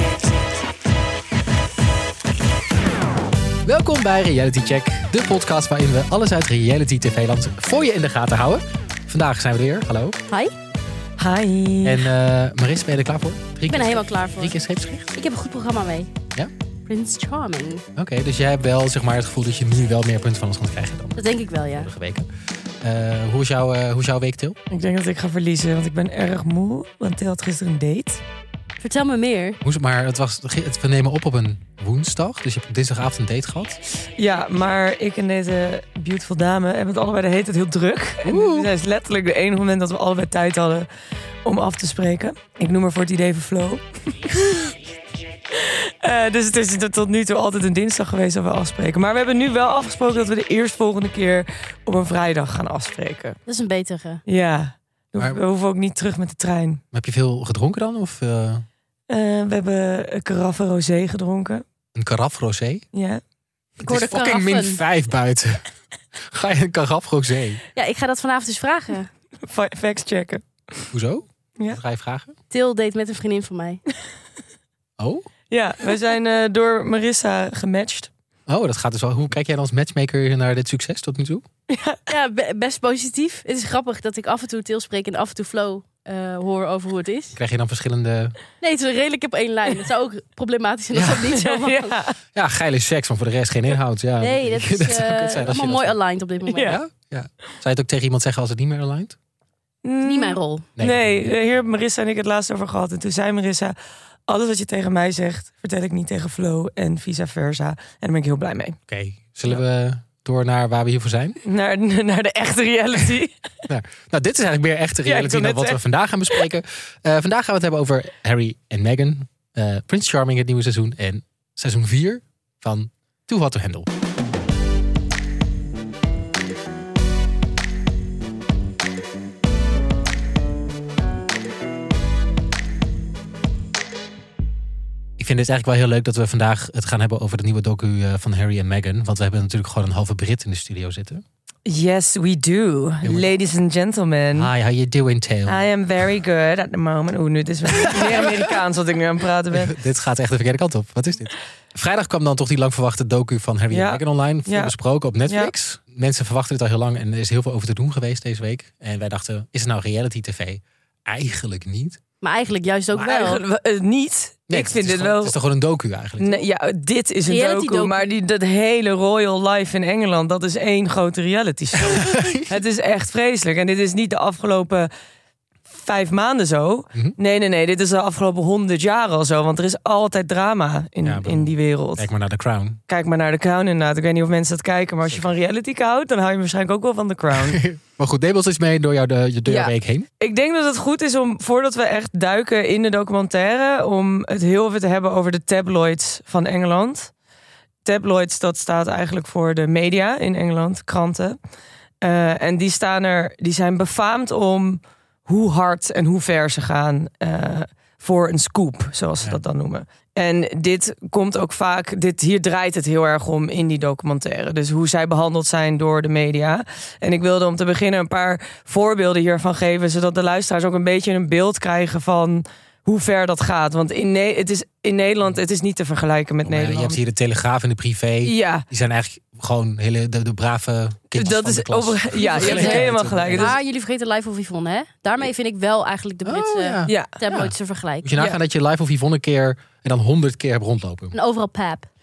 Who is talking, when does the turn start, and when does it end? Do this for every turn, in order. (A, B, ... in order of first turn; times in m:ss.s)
0:03.6-0:10.2 A
0:11.2-0:12.1 B
0:11.8-0:15.1 A
0:13.7-0:14.6 C
0:15.1-0:16.1 C
0:16.9-0:17.8 C
0:18.0-0:22.3 A
0:21.2-0:21.9 C
0:22.8-0:24.6 A
0:24.7-0:28.2 B
0:28.8-0:29.6 C
0:29.6-0:33.8 A
0:34.2-0:40.9 B
0:38.2-0:38.7 A
0:41.4-0:44.7 B
0:45.5-0:53.4 B
0:53.5-0:54.2 C
0:54.3-0:56.8 B
0:56.9-0:58.6 A
0:59.1-1:01.6 B
1:02.0-1:02.8 A
1:02.9-1:03.2 B
1:03.8-1:04.8 C
1:03.8-1:05.6 A
1:06.3-1:07.6 A
1:07.8-1:09.1 C
1:09.5-1:10.9 B
1:10.9-1:12.3 A
1:12.5-1:13.8 C
1:15.0-1:15.3 A
1:15.5-1:18.1 B
1:18.5-1:21.4 A
1:21.7-1:22.0 B
1:22.1-1:27.4 C
1:27.4-1:28.4 A
1:28.6-1:32.0 C
1:30.9-1:31.2 A
1:31.2-1:32.2 B
1:32.4-1:36.0 A
1:34.2-1:36.8 C
1:36.5-1:36.8 B
1:36.6-1:39.2 A
1:39.8-1:43.8 B
1:40.0-1:40.7 C
1:40.8-1:41.4 A
1:44.3-1:48.8 B
1:48.9-1:51.4 A
1:51.4-1:53.4 B
1:53.7-2:03.9 A
1:55.0-1:55.8 B
2:15.2-2:21.2 A
2:21.7-2:24.5 B
2:23.0-2:23.3 A
2:24.3-2:25.6 A
2:25.5-2:29.7 B
2:27.8-2:28.5 A
2:29.5-2:42.0 A
2:33.7-2:34.7 B
2:35.3-2:35.5 B
2:42.2-2:43.4 C
2:43.0-2:45.4 B
2:44.5-2:46.4 A
2:46.2-2:54.9 B
2:47.2-2:48.1 C
2:51.8-2:52.5 A
2:55.7-3:02.1 B
3:01.0-3:02.8 A
3:02.9-3:07.6 B
3:07.3-3:10.1 A
3:09.5-3:17.1 B
3:17.8-3:21.4 B
3:22.0-3:47.0 B
3:46.4-3:53.6 A
3:48.2-3:48.6 B
3:51.1-3:53.6 B
3:52.3-3:58.1 C
3:56.2-4:01.1 A
3:56.9-3:57.2 B
4:01.1-4:01.9 C